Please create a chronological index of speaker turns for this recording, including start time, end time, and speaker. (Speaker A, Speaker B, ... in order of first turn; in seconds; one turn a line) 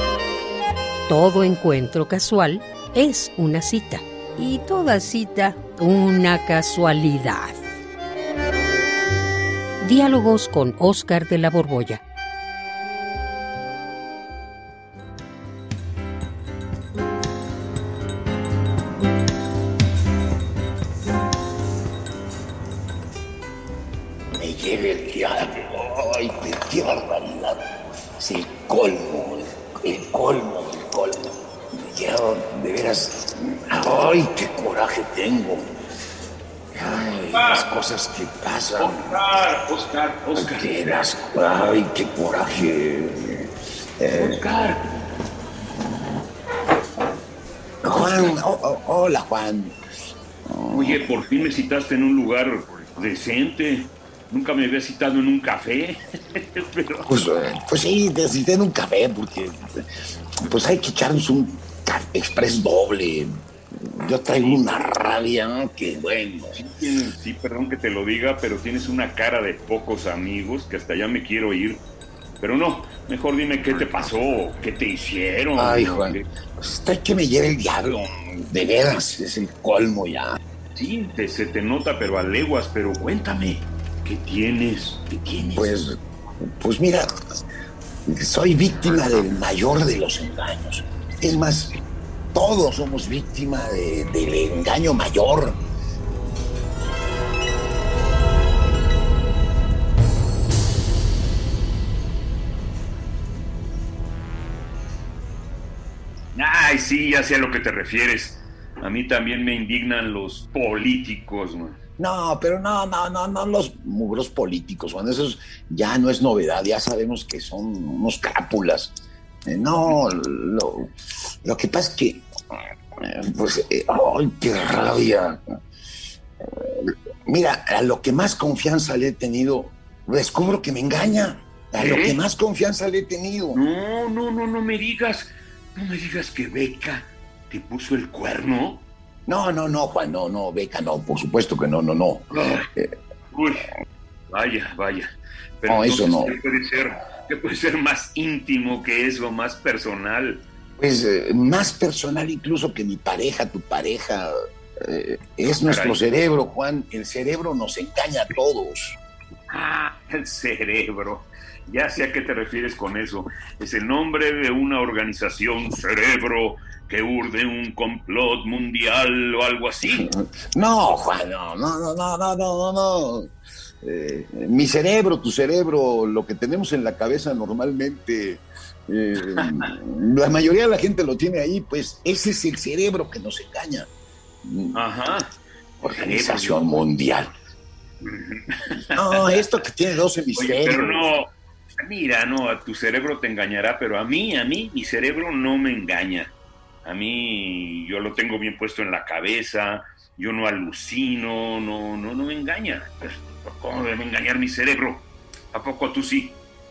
Speaker A: 1.1-7.6
Speaker A: 9.8-12.0
Speaker B: 24.4-27.6
Speaker B: 28.2-35.7
Speaker B: 36.8-39.2
Speaker C: 37.3-37.7
Speaker C: 38.8-40.8
Speaker B: 40.4-44.4
Speaker C: 44.1-44.8
Speaker B: 47.8-49.8
Speaker B: 50.5-51.1
Speaker C: 50.7-57.1
Speaker B: 57.1-59.6
Speaker B: 60.4-63.3
Speaker B: 63.9-66.5
Speaker C: 64.3-65.1
Speaker C: 66.6-71.8
Speaker C: 72.4-76.3
Speaker B: 73.7-74.1
Speaker B: 75.6-80.4
Speaker C: 80.8-85.7
Speaker B: 85.5-86.0
Speaker B: 86.6-87.1
Speaker B: 88.1-91.8
Speaker B: 92.3-95.6
Speaker C: 106.3-111.8
Speaker B: 112.0-120.9
Speaker B: 121.4-122.3
Speaker B: 123.0-125.4
Speaker B: 126.5-133.6
Speaker C: 131.8-132.2
Speaker C: 133.5-138.8
Speaker B: 139.3-142.9
Speaker C: 142.3-142.7
Speaker C: 143.3-143.7
Speaker C: 144.3-150.4
Speaker B: 145.7-146.3
Speaker B: 150.8-159.0
Speaker C: 155.6-156.0
Speaker C: 159.5-170.1
Speaker B: 169.8-173.3
Speaker B: 173.8-183.9
Speaker C: 179.3-179.7
Speaker B: 184.4-184.8
Speaker C: 184.7-185.3
Speaker B: 185.8-187.3
Speaker C: 185.8-186.7
Speaker C: 188.0-189.4
Speaker B: 188.9-191.1
Speaker C: 190.4-196.3
Speaker C: 196.8-206.4